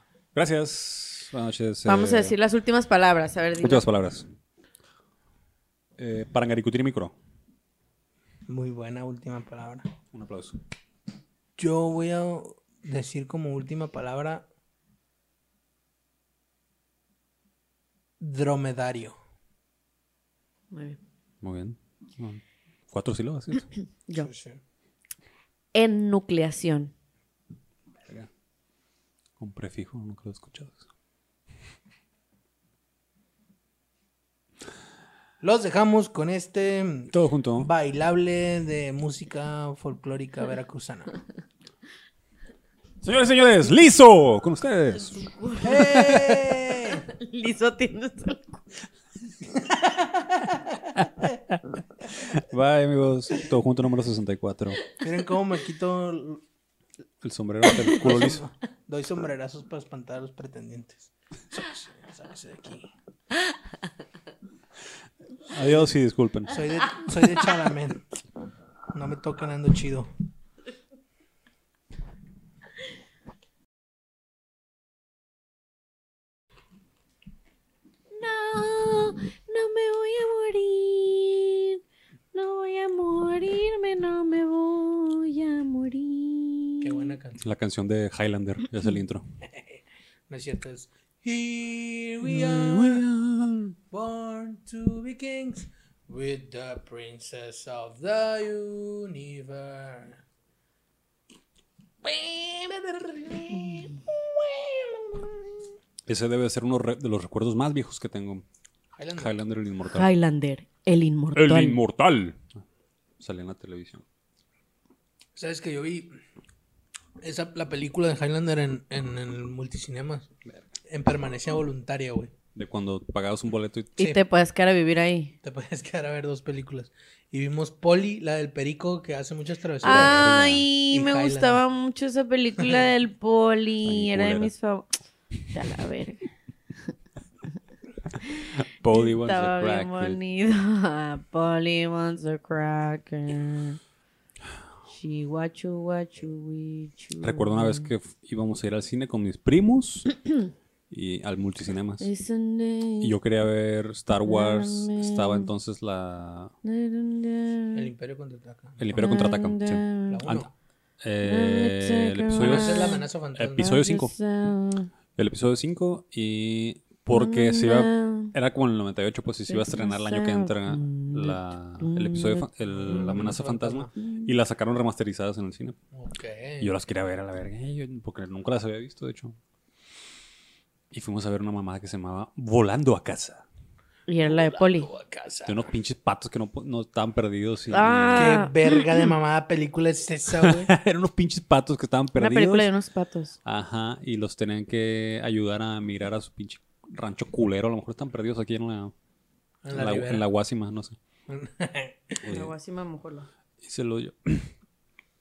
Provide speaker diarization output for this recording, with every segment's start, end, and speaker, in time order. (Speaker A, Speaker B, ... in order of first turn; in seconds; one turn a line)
Speaker A: 0.3-2.3
Speaker B: 1.8-3.9
Speaker A: 3.6-4.2
Speaker A: 6.0-7.1
Speaker C: 8.5-9.9
Speaker A: 10.1-10.6
Speaker C: 11.6-14.5
Speaker C: 18.2-19.2
Speaker B: 20.7-21.0
Speaker A: 21.4-23.7
Speaker C: 24.1-24.6
Speaker B: 25.7-26.9
Speaker A: 29.4-30.8
Speaker C: 35.4-41.1
Speaker A: 37.1-37.7
Speaker A: 43.0-46.3
Speaker B: 44.9-48.6
Speaker C: 45.6-47.0
Speaker C: 49.5-50.9
Speaker A: 52.0-54.9
Speaker C: 54.9-56.4
Speaker A: 57.2-58.5
Speaker C: 57.8-62.9
Speaker A: 65.5-66.6
Speaker C: 65.6-65.9
Speaker C: 66.5-68.1
Speaker C: 68.9-70.1
Speaker B: 78.1-81.8
Speaker B: 82.3-87.1
Speaker C: 86.8-87.5
Speaker A: 87.4-89.2
Speaker C: 89.4-93.0
Speaker A: 92.2-93.8
Speaker C: 93.9-100.2
Speaker C: 102.0-105.6
Speaker B: 103.5-104.0
Speaker A: 106.1-108.5
Speaker C: 108.9-109.3
Speaker A: 109.1-110.1
Speaker B: 109.9-111.8
Speaker A: 111.3-112.4
Speaker A: 113.2-114.0
Speaker C: 115.3-116.1
Speaker C: 117.2-120.3
Speaker C: 120.9-122.3
Speaker A: 122.5-124.1
Speaker B: 124.0-125.3
Speaker C: 125.4-130.3
Speaker A: 129.8-130.7
Speaker B: 129.8-134.9
Speaker C: 130.9-131.6
Speaker C: 132.6-132.8
Speaker A: 133.8-134.5
Speaker B: 135.5-136.2
Speaker B: 138.2-143.8
Speaker A: 138.6-140.2
Speaker B: 144.8-147.9
Speaker A: 147.2-150.2
Speaker A: 150.9-152.1
Speaker B: 152.0-153.1
Speaker A: 153.0-156.5
Speaker B: 154.2-155.5
Speaker B: 156.6-157.9
Speaker C: 157.7-159.0
Speaker A: 158.8-160.5
Speaker B: 158.9-160.2
Speaker C: 160.1-160.5
Speaker A: 161.0-164.1
Speaker B: 161.2-163.0
Speaker C: 162.3-163.8
Speaker B: 163.8-164.9
Speaker A: 165.2-175.8
Speaker B: 167.1-168.3
Speaker B: 169.5-173.3
Speaker C: 172.6-173.9
Speaker B: 174.0-174.3
Speaker C: 175.9-176.7
Speaker A: 176.6-179.4
Speaker A: 180.9-183.4
Speaker B: 184.1-184.9
Speaker C: 184.2-185.6
Speaker A: 185.4-188.5
Speaker B: 187.7-189.0
Speaker C: 188.2-190.7
Speaker A: 190.3-192.7
Speaker B: 192.2-193.4
Speaker A: 193.4-198.9
Speaker C: 199.6-200.3
Speaker A: 199.7-201.0
Speaker C: 201.3-202.3
Speaker A: 202.2-202.5
Speaker B: 202.3-203.3
Speaker A: 203.6-204.5